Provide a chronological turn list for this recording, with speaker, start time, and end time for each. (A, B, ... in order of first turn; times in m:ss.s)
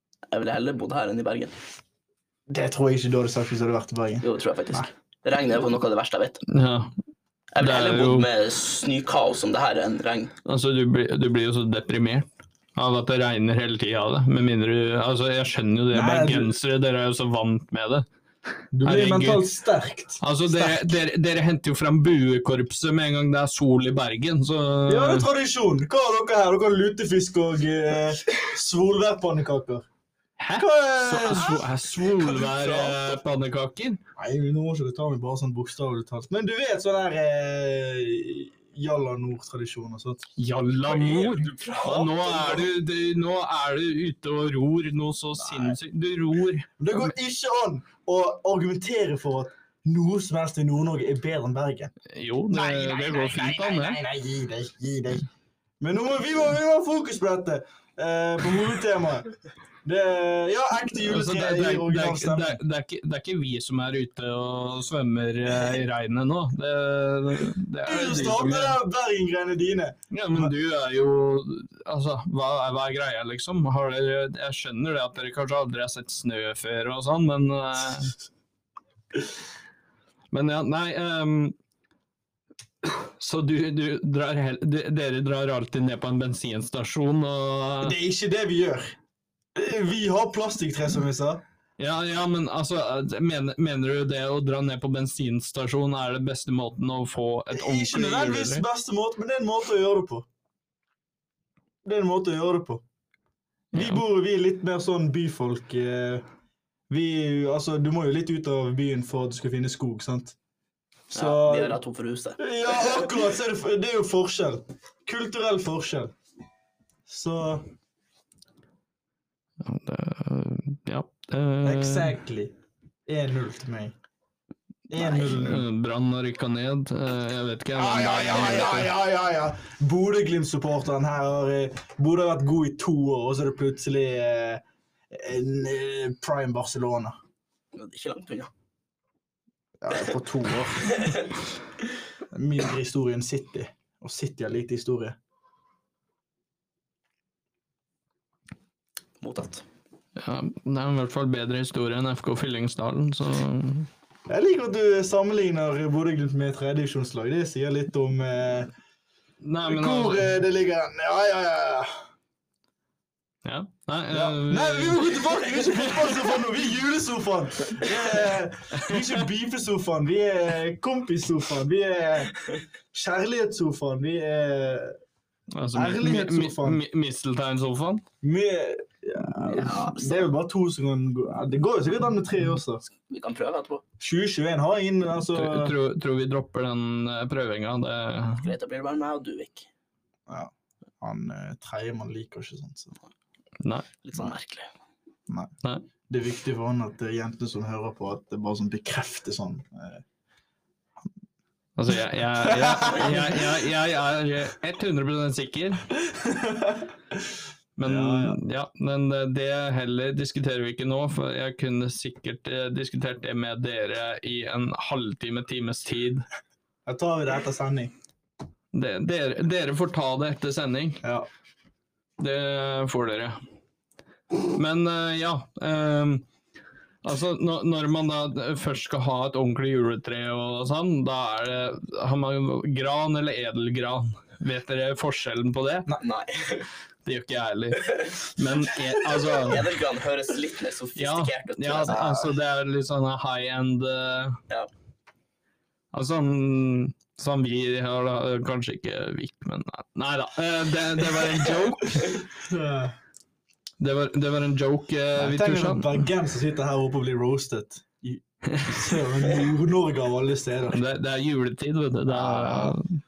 0:00.3-0:01.5 A
0:02.5-0:04.9 B
0:04.2-0:06.4 A
0:06.5-0:06.9 C
0:07.5-0:10.3 A
0:07.6-0:08.3 C
0:10.4-0:18.0 C
0:15.9-0:16.6 B
0:18.7-0:20.9 B
0:18.8-0:19.4 C
0:20.2-0:25.3 C
0:24.9-0:29.8 B
0:30.4-0:34.0 C
0:30.5-0:31.7 B
0:32.2-0:33.2 A
0:34.2-0:40.3 B
0:40.4-0:46.7 C
0:40.9-0:42.6 A
0:45.4-0:45.8 B
0:46.8-0:51.9 B
0:52.1-0:54.0 C
0:52.5-0:55.3 B
0:55.8-0:59.3 B
0:59.8-1:02.6 B
1:01.0-1:08.8 C
1:07.8-1:10.5 B
1:10.1-1:18.2 C
1:20.3-1:21.5 C
1:23.0-1:28.0 C
1:27.8-1:29.0 B
1:29.5-1:31.4 B
1:31.8-1:38.6 C
1:37.5-1:40.2 B
1:41.8-1:42.8 B
1:43.7-1:44.0 C
1:43.7-1:46.2 B
1:46.9-1:50.4 B
1:51.1-1:51.8 B
1:51.1-1:53.1 A
1:52.4-1:56.1 B
1:57.1-1:57.7 B
1:59.6-2:02.2 C
2:01.6-2:02.5 B
2:03.0-2:03.9 B
2:04.9-2:05.6 B
2:05.2-2:08.9 C
2:07.8-2:17.2 B
2:17.7-2:18.5 A
2:19.8-2:21.1 B
2:20.8-2:21.2 A
2:22.3-2:25.2 B
2:29.2-2:29.6 A
2:30.2-2:33.9 C
2:34.3-2:38.7 B
2:39.4-2:40.3 C
2:39.6-2:42.0 B
2:43.4-2:46.3 C
2:44.1-2:55.0 B
2:48.8-2:49.1 C
2:55.5-2:58.0 C
2:55.7-2:56.8 B
2:58.2-3:02.8 B
2:59.5-3:00.3 A
3:03.1-3:03.8 A
3:04.0-3:05.7 B
3:05.3-3:08.5 C
3:08.3-3:09.7 A
3:10.3-3:12.9 B
3:13.6-3:13.9 C
3:14.0-3:14.7 A
3:15.3-3:15.5 B
3:16.1-3:20.0 B
3:21.8-3:25.9 C
3:22.4-3:23.6 B
3:26.1-3:26.9 B
3:27.8-3:36.2 C
3:27.8-3:28.4 B
3:36.8-3:37.9 B
3:38.7-3:41.0 C
3:41.0-3:41.3 B
3:42.2-3:43.4 C
3:44.3-3:46.2 C
3:47.0-3:55.9 C
3:55.9-3:56.7 A
3:57.0-3:59.7 C
3:59.3-4:02.3 A
4:01.0-4:04.4 C
4:05.9-4:12.2 C
4:12.3-4:13.0 B
4:13.8-4:16.0 C
4:15.2-4:20.8 B
4:18.5-4:19.0 C
4:20.7-4:23.0 C
4:22.1-4:22.8 B